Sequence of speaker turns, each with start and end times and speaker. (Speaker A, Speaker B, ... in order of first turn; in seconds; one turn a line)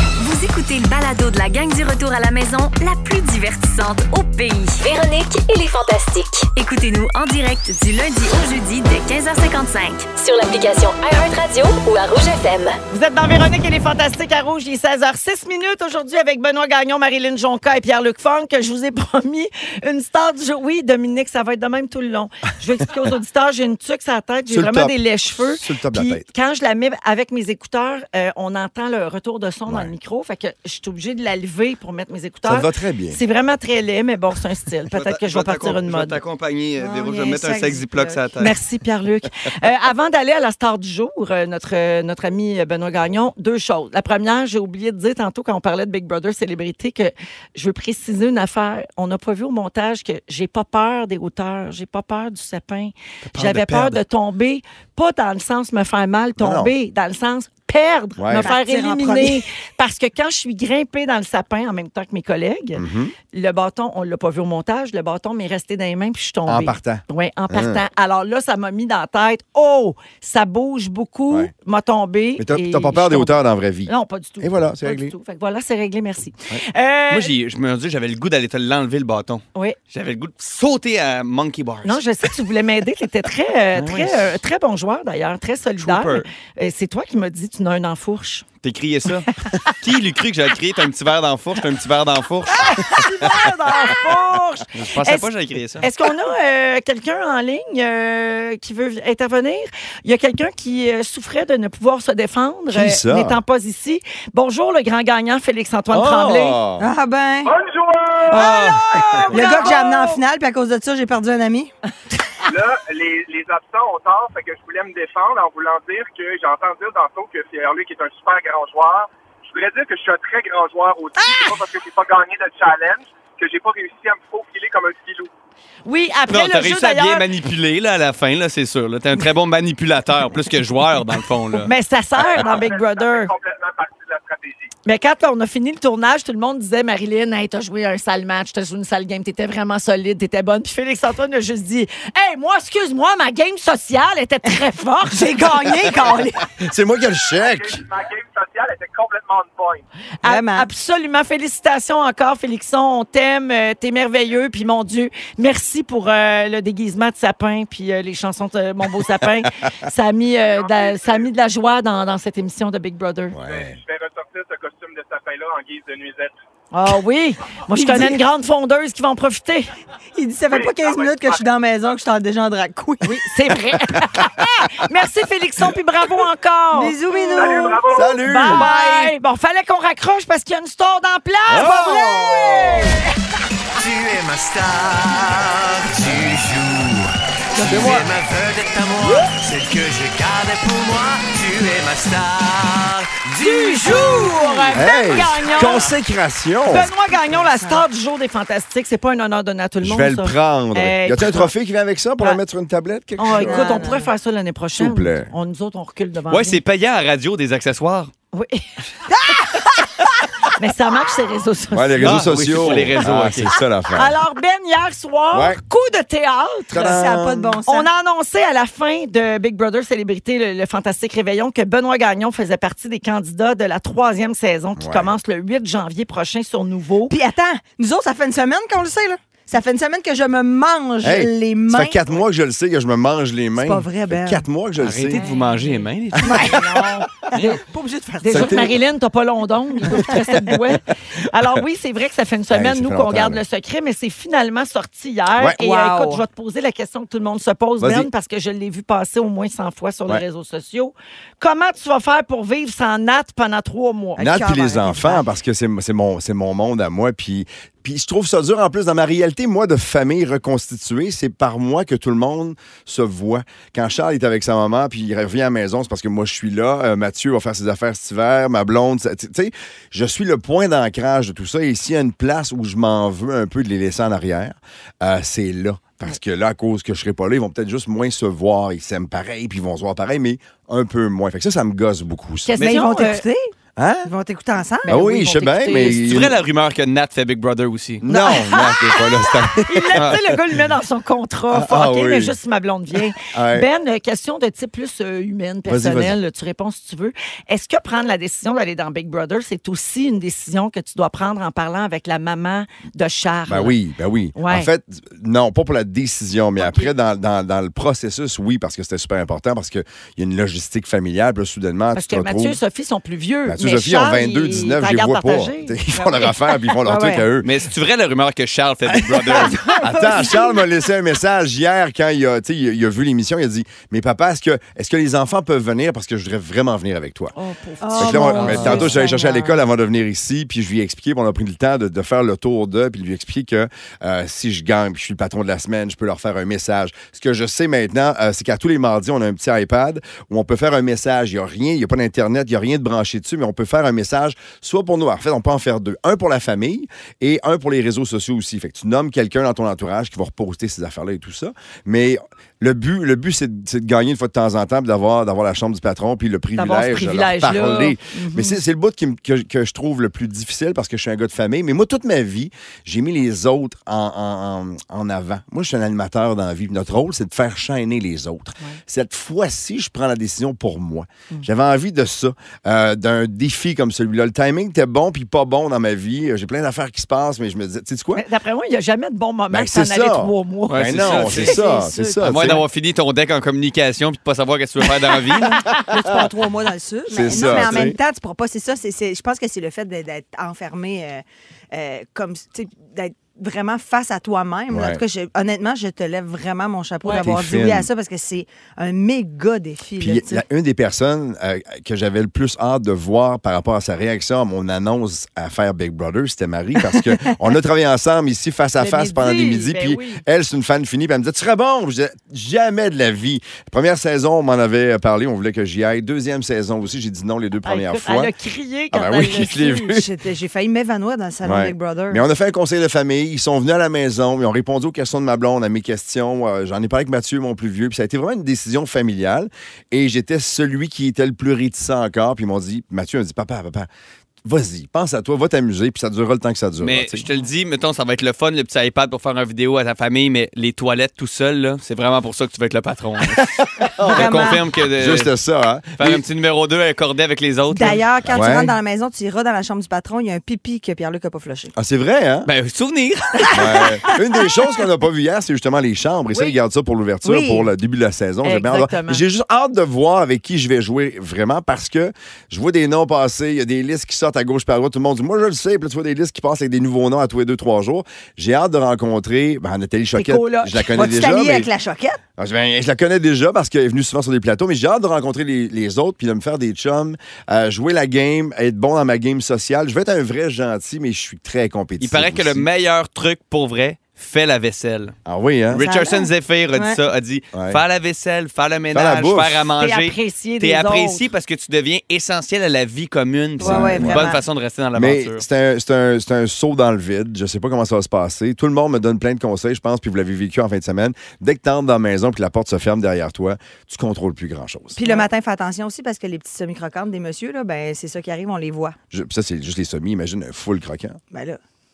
Speaker A: 0.2-4.8
Speaker B: 4.8-6.5
Speaker A: 6.5-10.2
Speaker B: 10.2-12.8
Speaker C: 12.9-36.2
Speaker D: 24.5-26.3
Speaker D: 32.5-33.2
Speaker E: 34.9-38.5
Speaker F: 36.8-38.2
Speaker C: 38.4-77.3
Speaker E: 53.3-54.0
Speaker D: 56.4-56.7
Speaker D: 58.2-58.5
Speaker F: 58.4-59.4
Speaker D: 62.8-63.1
Speaker D: 66.5-67.8
Speaker D: 72.4-75.2
Speaker E: 77.1-82.0
Speaker C: 81.8-88.5
Speaker E: 83.8-84.3
Speaker E: 85.8-86.3
Speaker E: 88.6-93.0
Speaker C: 92.5-106.6
Speaker D: 92.9-93.5
Speaker E: 94.8-95.9
Speaker D: 102.7-103.4
Speaker D: 105.9-106.8
Speaker F: 106.8-107.5
Speaker G: 107.5-109.8
Speaker C: 108.3-110.2
Speaker E: 108.3-108.7
Speaker F: 109.3-111.7
Speaker G: 112.5-125.3
Speaker C: 121.2-121.6
Speaker C: 125.9-127.3
Speaker E: 126.3-131.7
Speaker C: 131.6-133.3
Speaker G: 132.2-134.7
Speaker C: 134.9-146.4
Speaker F: 145.2-146.2
Speaker D: 146.6-147.8
Speaker G: 147.4-149.8
Speaker C: 150.2-163.4
Speaker F: 150.2-150.7
Speaker G: 160.4-161.3
Speaker D: 163.3-163.8
Speaker G: 163.4-166.4
Speaker C: 166.7-169.7
Speaker F: 167.8-168.2
Speaker F: 170.2-173.3
Speaker G: 170.5-171.5
Speaker C: 173.0-177.7
Speaker F: 176.7-177.8
Speaker G: 177.3-178.2
Speaker D: 177.9-178.7
Speaker C: 178.2-183.0
Speaker F: 178.5-179.1
Speaker D: 181.5-183.0
Speaker H: 183.8-195.5
Speaker D: 186.0-186.4
Speaker D: 187.6-188.1
Speaker C: 187.7-187.9
Speaker C: 193.4-195.9
Speaker D: 194.7-196.9
Speaker C: 196.7-201.5
Speaker F: 197.1-197.8
Speaker D: 199.8-203.9
Speaker C: 203.2-206.6
Speaker F: 203.3-204.1
Speaker D: 204.8-205.3
Speaker E: 206.3-208.1
Speaker C: 208.3-208.7
Speaker F: 209.1-209.6
Speaker C: 210.5-212.9
Speaker D: 211.7-214.2
Speaker E: 212.0-213.5
Speaker C: 213.9-217.0
Speaker D: 215.3-215.6
Speaker D: 216.7-217.6
Speaker F: 216.8-217.9
Speaker C: 217.7-227.2
Speaker D: 224.8-225.1
Speaker F: 227.1-232.2
Speaker D: 231.0-235.2
Speaker F: 233.6-234.4
Speaker E: 234.8-236.7
Speaker C: 235.1-237.6
Speaker D: 236.2-236.5
Speaker F: 236.2-238.8
Speaker C: 238.2-254.3
Speaker D: 238.3-238.8
Speaker F: 239.9-240.5
Speaker D: 242.5-243.4
Speaker F: 245.6-246.2
Speaker D: 247.8-248.1
Speaker F: 254.2-255.2
Speaker D: 254.2-282.6
Speaker C: 282.4-283.2
Speaker F: 282.6-283.5
Speaker D: 283.8-284.1
Speaker F: 284.0-285.0
Speaker C: 284.8-286.2
Speaker D: 284.9-286.4
Speaker E: 285.9-288.0
Speaker D: 288.0-290.4
Speaker C: 288.1-303.8
Speaker D: 291.5-292.4
Speaker D: 293.1-293.7
Speaker D: 295.7-296.2
Speaker D: 303.5-312.6
Speaker C: 304.4-304.7
Speaker C: 306.6-306.9
Speaker C: 311.9-316.3
Speaker D: 313.5-317.5
Speaker F: 316.9-317.2
Speaker E: 317.4-319.6
Speaker D: 318.9-327.3
Speaker F: 319.7-320.6
Speaker C: 327.4-329.6
Speaker F: 327.8-329.3
Speaker D: 328.0-378.3
Speaker C: 356.6-358.6
Speaker C: 378.1-381.4
Speaker D: 379.5-382.6
Speaker E: 380.7-381.6
Speaker F: 381.1-382.6
Speaker E: 382.2-385.6
Speaker F: 385.4-400.4
Speaker D: 387.1-388.0
Speaker D: 394.7-395.0
Speaker C: 397.0-397.4
Speaker D: 397.1-397.9
Speaker D: 400.0-418.3
Speaker C: 408.8-410.2
Speaker C: 417.6-419.9
Speaker D: 418.9-420.1
Speaker F: 419.9-422.2
Speaker D: 421.4-433.9
Speaker D: 434.4-437.2
Speaker E: 436.8-445.3
Speaker D: 443.4-446.2
Speaker F: 444.0-444.6
Speaker E: 446.0-448.0
Speaker F: 447.7-451.7
Speaker D: 448.3-448.8
Speaker D: 451.8-452.5
Speaker E: 452.5-453.9
Speaker D: 453.5-471.7
Speaker F: 457.2-457.7
Speaker C: 458.4-459.2
Speaker C: 470.1-470.9
Speaker F: 470.9-472.2
Speaker D: 472.4-482.7
Speaker E: 482.0-485.1
Speaker D: 485.2-485.9
Speaker E: 485.7-495.4
Speaker F: 485.8-487.0
Speaker D: 487.5-487.8
Speaker D: 488.9-489.7
Speaker C: 489.8-491.3
Speaker D: 493.6-494.3
Speaker F: 493.6-494.4
Speaker D: 494.9-505.0
Speaker F: 505.0-509.0
Speaker D: 509.1-511.2
Speaker F: 511.3-511.6